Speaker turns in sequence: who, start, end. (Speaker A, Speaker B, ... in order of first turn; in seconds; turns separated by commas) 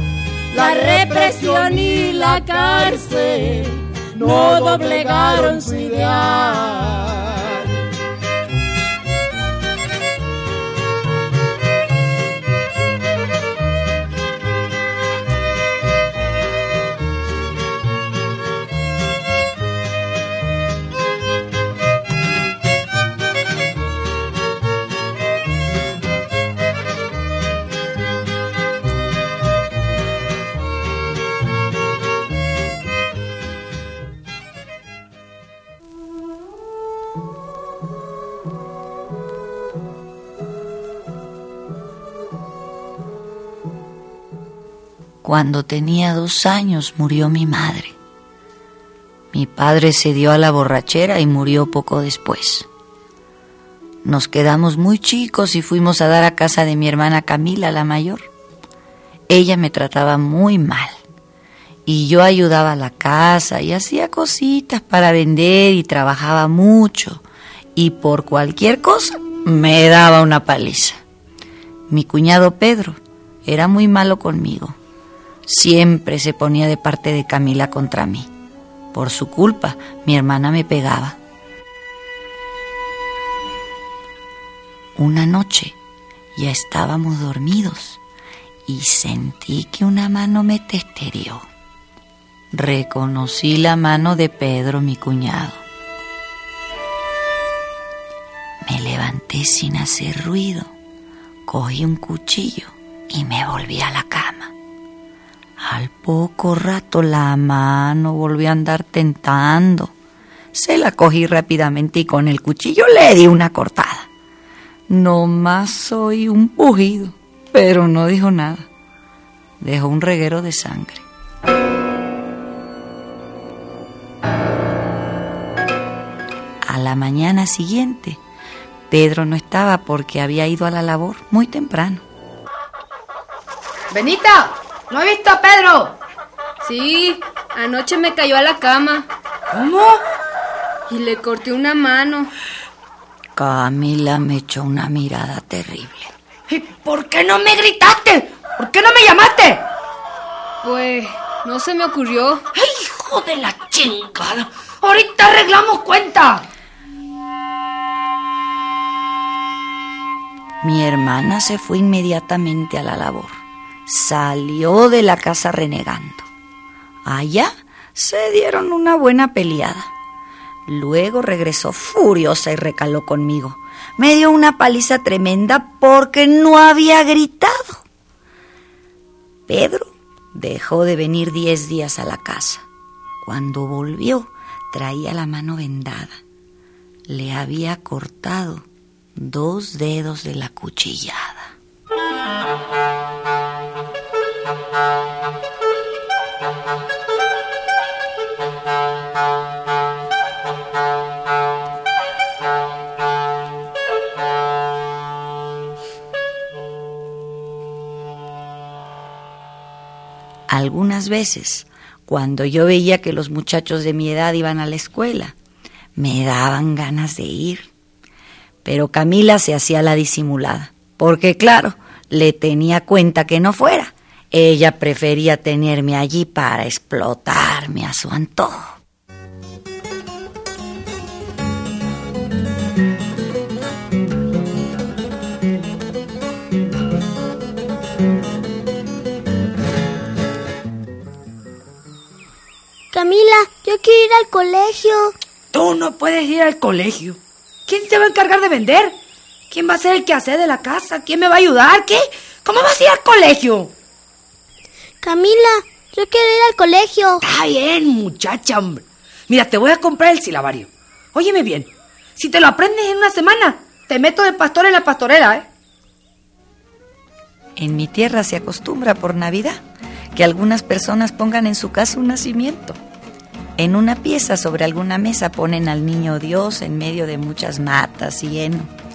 Speaker A: 0.5-7.7, Speaker B: 45.2-48.0, Speaker B: 49.3-52.7, Speaker B: 54.0-58.3, Speaker B: 59.3-61.0, Speaker B: 61.9-67.2, Speaker B: 67.8-71.0, Speaker B: 71.9-74.8, Speaker B: 75.5-78.3, Speaker B: 78.9-81.2, Speaker B: 85.0-85.8, Speaker B: 86.4-88.0, Speaker B: 88.7-91.5, Speaker B: 92.5-95.6, Speaker B: 98.7-100.7, Speaker B: 101.5-104.5, Speaker B: 105.6-109.9, Speaker B: 110.5-114.1, Speaker B: 114.9-118.7, Speaker B: 119.6-121.0, Speaker B: 126.7-128.2, Speaker B: 128.9-132.1, Speaker C: 133.9-136.0, Speaker D: 136.6-139.1, Speaker C: 139.5-140.0, Speaker D: 140.9-142.3, Speaker B: 143.4-146.1, Speaker C: 146.5-149.7, Speaker D: 150.6-152.4, Speaker C: 152.6-156.4, Speaker B: 160.6-166.3, Speaker B: 167.1-169.9, Speaker B: 170.7-177.8, Speaker B: 179.5-182.7, Speaker B: 183.2-186.2, Speaker B: 187.1-191.5, Speaker B: 210.5-215.4, Speaker B: 216.0-217.7, Speaker B: 218.7-228.8, Speaker E: 242.9-245.2, Speaker C: 245.5-249.0, Speaker C: 249.5-253.7, Speaker E: 255.0-257.2, Speaker C: 257.2-265.5, Speaker B: 267.6-269.6, Speaker B: 270.1-272.8, Speaker B: 273.6-278.7